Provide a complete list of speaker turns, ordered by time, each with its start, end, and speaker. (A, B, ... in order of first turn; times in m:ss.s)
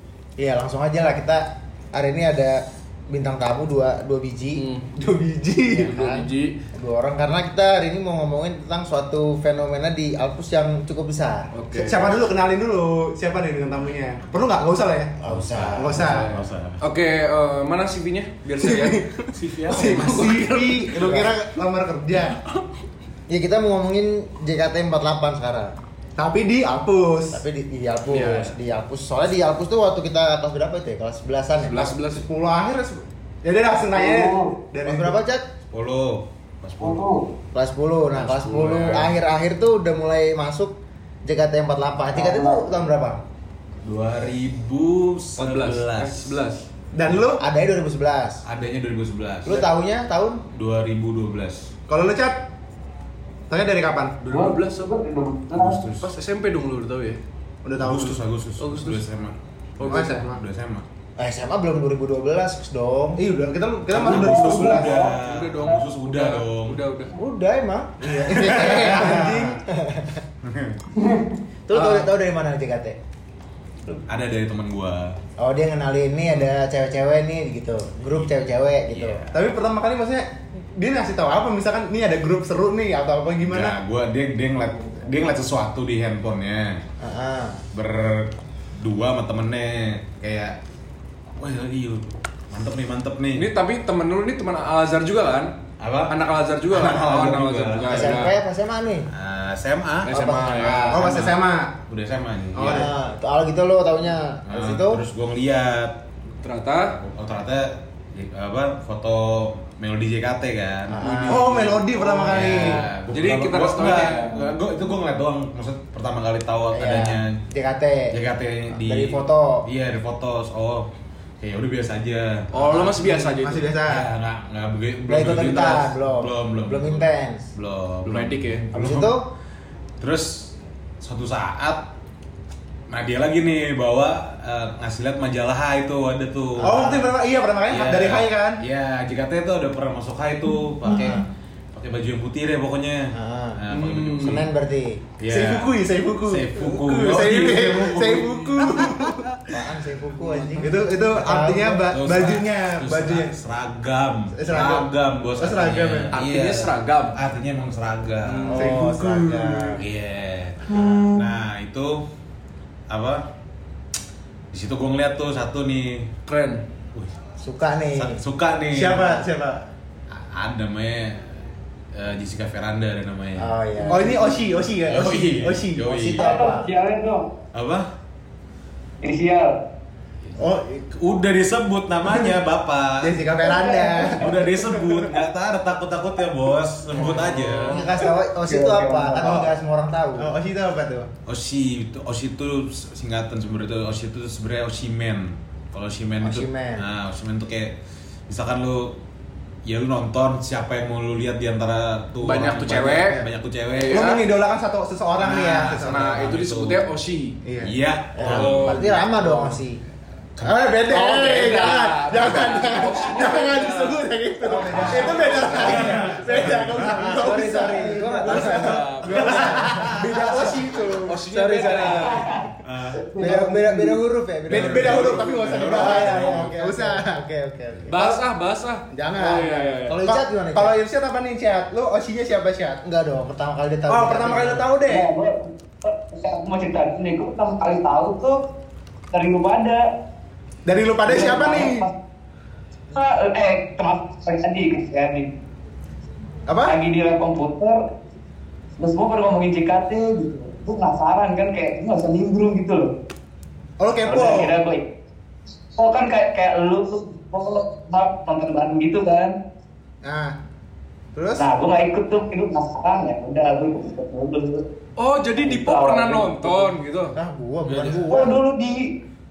0:00.4-0:04.6 A
0:04.5-0:04.9 B
0:04.9-0:05.9 C
0:05.7-0:06.6 B
0:05.7-0:11.5 A
0:11.5-0:12.1 B
0:11.7-0:15.2 C
0:15.2-0:16.0 A
0:15.2-0:16.8 D
0:15.7-0:16.3 C
0:16.0-0:21.2 B
0:18.6-0:22.4 C
0:19.3-0:20.4 D
0:21.0-0:21.3 A
0:23.3-0:25.7 A
0:26.2-0:27.4 C
0:27.3-0:31.9 A
0:28.1-0:28.5 B
0:31.6-0:32.2 B
0:32.1-0:35.2 C
0:33.9-0:34.6 E
0:34.8-0:35.5 A
0:35.7-0:37.0 D
0:36.8-0:37.3 E
0:37.5-0:43.2 A
0:38.1-0:39.1 D
0:42.1-0:42.7 E
0:43.8-0:46.4 D
0:45.4-0:46.6 B
0:46.9-0:47.4 C
0:47.4-0:48.4 A
0:48.4-0:49.7 D
0:49.4-0:50.4 A
0:50.5-0:51.7 D
0:51.9-0:52.4 C
0:53.5-0:54.2 C
0:54.3-0:54.9 B
0:54.3-0:55.8 E
0:55.5-0:56.1 D
0:56.0-0:57.2 B
0:57.6-0:58.2 C
0:57.8-1:00.8 D
0:58.6-0:59.0 B
0:59.8-1:00.2 B
0:59.9-1:00.4 C
1:01.2-1:03.2 A
1:03.2-1:05.0 C
1:03.9-1:06.8 D
1:04.0-1:05.1 E
1:04.4-1:07.1 B
1:07.1-1:10.2 A
1:08.0-1:09.6 C
1:08.4-1:09.3 D
1:10.4-1:10.8 D
1:11.7-1:13.0 A
1:14.1-1:15.2 D
1:15.4-1:19.2 A
1:18.9-1:19.4 D
1:19.3-1:23.7 C
1:23.4-1:26.8 D
1:27.0-1:27.6 A
1:27.7-1:30.6 D
1:31.4-1:33.4 D
1:33.4-1:35.5 B
1:35.8-1:36.1 D
1:36.1-1:38.3 B
1:36.7-1:38.2 D
1:37.8-1:39.1 A
1:39.1-1:42.9 D
1:40.1-1:41.0 B
1:40.1-1:41.1 A
1:40.9-1:41.7 C
1:42.5-1:42.9 C
1:42.6-1:45.0 A
1:44.4-1:46.0 D
1:46.4-1:47.0 B
1:47.0-1:57.4 D
1:50.9-1:51.4 A
1:51.0-1:51.5 B
1:51.2-1:52.8 C
1:52.3-1:54.4 B
1:56.7-1:58.1 A
1:58.1-2:00.9 D
1:58.7-1:59.6 A
2:01.4-2:02.8 D
2:02.5-2:03.7 B
2:02.8-2:04.0 C
2:03.8-2:09.2 D
2:05.1-2:07.5 A
2:08.0-2:08.7 B
2:08.7-2:09.2 A
2:10.0-2:11.8 D
2:12.9-2:17.1 D
2:16.6-2:17.1 A
2:16.6-2:18.6 C
2:17.7-2:24.5 D
2:20.9-2:21.2 C
2:20.9-2:21.2 A
2:23.1-2:23.6 A
2:23.7-2:24.4 B
2:24.2-2:25.0 A
2:25.2-2:29.4 D
2:25.3-2:29.2 C
2:29.5-2:31.9 A
2:30.5-2:33.4 C
2:31.9-2:38.6 D
2:34.3-2:36.2 C
2:36.1-2:37.2 B
2:38.2-2:38.9 B
2:38.5-2:39.8 A
2:38.5-2:39.8 C
2:39.8-2:42.1 D
2:40.7-2:41.1 C
2:42.9-2:43.3 D
2:44.5-2:46.1 D
2:46.3-2:46.6 B
2:47.4-2:48.2 A
2:47.9-2:49.2 D
2:48.7-2:49.6 C
2:50.1-2:51.4 D
2:51.9-2:53.5 D
2:53.4-2:54.3 A
2:53.9-2:55.9 C
2:54.8-2:56.4 D
2:55.9-2:56.7 A
2:56.2-2:57.3 E
2:57.5-2:57.9 D
2:59.0-2:59.6 E
3:00.4-3:00.8 C
3:00.8-3:03.2 D
3:02.1-3:02.3 C
3:03.0-3:05.0 C
3:03.5-3:04.1 E
3:04.1-3:07.8 D
3:06.9-3:07.8 C
3:07.0-3:10.3 A
3:08.5-3:09.4 E
3:09.2-3:09.5 C
3:10.2-3:11.1 C
3:11.2-3:17.7 D
3:16.2-3:16.8 A
3:18.3-3:19.0 D
3:19.6-3:24.1 D
3:22.2-3:24.2 B
3:23.9-3:26.1 C
3:25.2-3:26.8 D
3:25.8-3:27.4 B
3:27.4-3:27.7 C
3:27.6-3:29.4 D
3:28.2-3:29.8 A
3:28.2-3:29.0 B
3:30.4-3:30.6 D
3:30.4-3:42.5 A
3:30.9-3:35.9 B
3:32.1-3:41.9 C
3:34.7-3:37.5 D
3:37.9-3:39.9 B
3:39.0-3:40.0 D
3:40.4-3:42.3 B
3:42.1-3:43.9 E
3:42.6-3:43.1 D
3:43.2-3:48.1 A
3:43.2-3:43.9 C
3:44.5-3:47.0 C
3:44.5-3:46.7 D
3:47.9-3:50.0 B
3:47.9-3:48.2 C
3:48.9-3:50.7 A
3:50.0-3:52.8 C
3:52.8-3:54.7 A
3:53.9-3:55.1 C
3:54.8-3:58.4 E
3:59.1-3:59.8 E
4:00.6-4:01.9 C
4:01.0-4:01.9 E
4:02.9-4:05.3 E
4:06.5-4:06.8 C
4:06.6-4:07.8 E
4:08.8-4:12.9 E
4:13.8-4:14.6 C
4:14.0-4:14.8 E
4:15.8-4:19.3 E
4:20.0-4:20.3 C
4:21.1-4:21.5 C
4:21.4-4:24.6 E
4:25.0-4:27.2 B
4:25.4-4:26.7 E
4:27.1-4:28.4 A
4:27.6-4:28.0 D
4:28.1-4:28.9 E